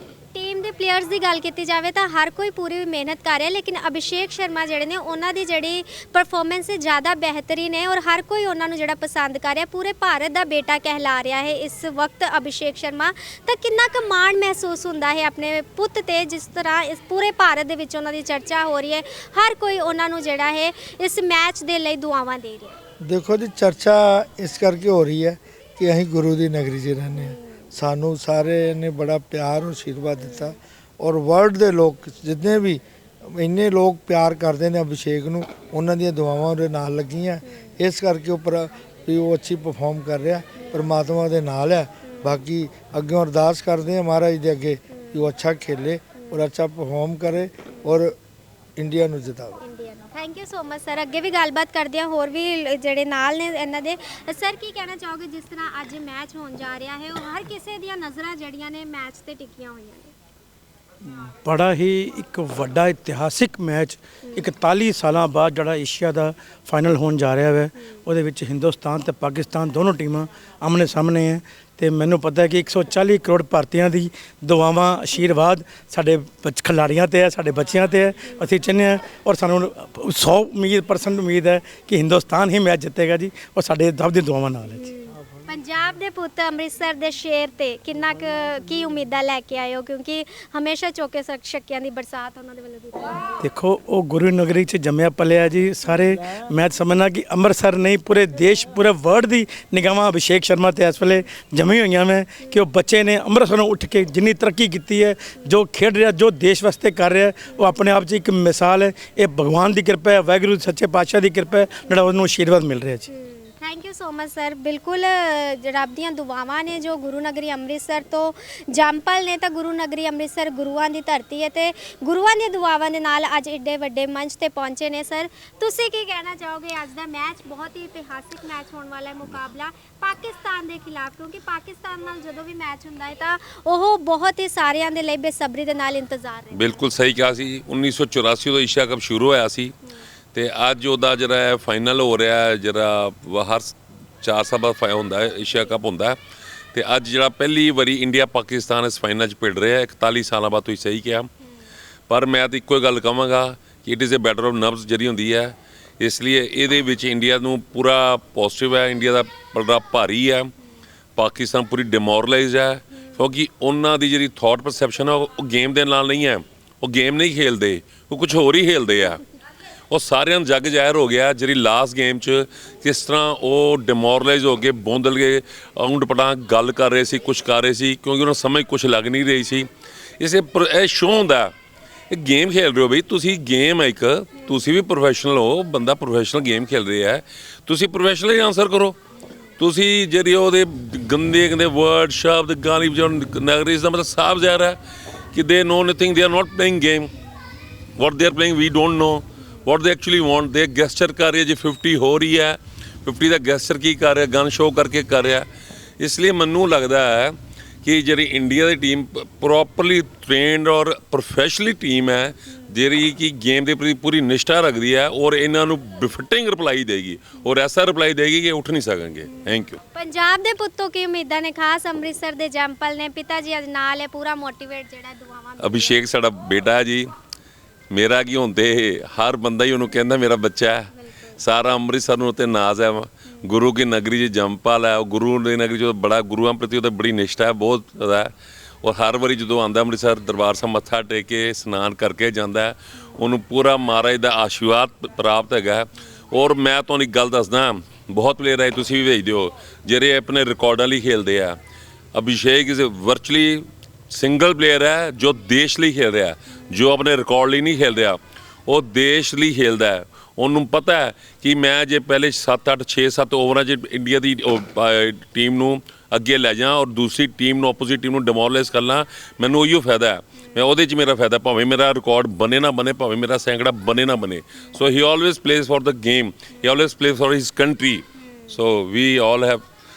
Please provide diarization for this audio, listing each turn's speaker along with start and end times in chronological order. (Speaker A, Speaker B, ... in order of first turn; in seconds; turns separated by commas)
Speaker A: 0.3-22.8, Speaker B: 23.0-48.2, Speaker A: 27.1-27.4, Speaker A: 30.2-30.5, Speaker A: 40.6-40.9, Speaker A: 42.0-42.4, Speaker A: 44.9-45.3, Speaker A: 46.2-46.5, Speaker B: 48.8-49.6, Speaker A: 49.6-60.1, Speaker C: 61.0-84.9, Speaker A: 64.2-64.5, Speaker A: 84.7-93.3, Speaker C: 93.4-113.1, Speaker A: 107.5-107.8, Speaker A: 113.1-136.7, Speaker D: 136.5-139.8, Speaker D: 140.3-146.2, Speaker D: 146.7-151.3, Speaker D: 152.1-160.5, Speaker D: 161.2-169.2, Speaker D: 169.9-179.7, Speaker D: 180.2-181.5, Speaker D: 182.1-189.0, Speaker D: 189.6-194.8, Speaker D: 195.3-197.1, Speaker D: 198.0-205.5, Speaker D: 206.0-219.8, Speaker A: 219.2-226.0, Speaker D: 225.6-227.1, Speaker D: 227.9-238.3, Speaker A: 230.9-231.4, Speaker D: 238.8-251.6, Speaker D: 252.1-279.6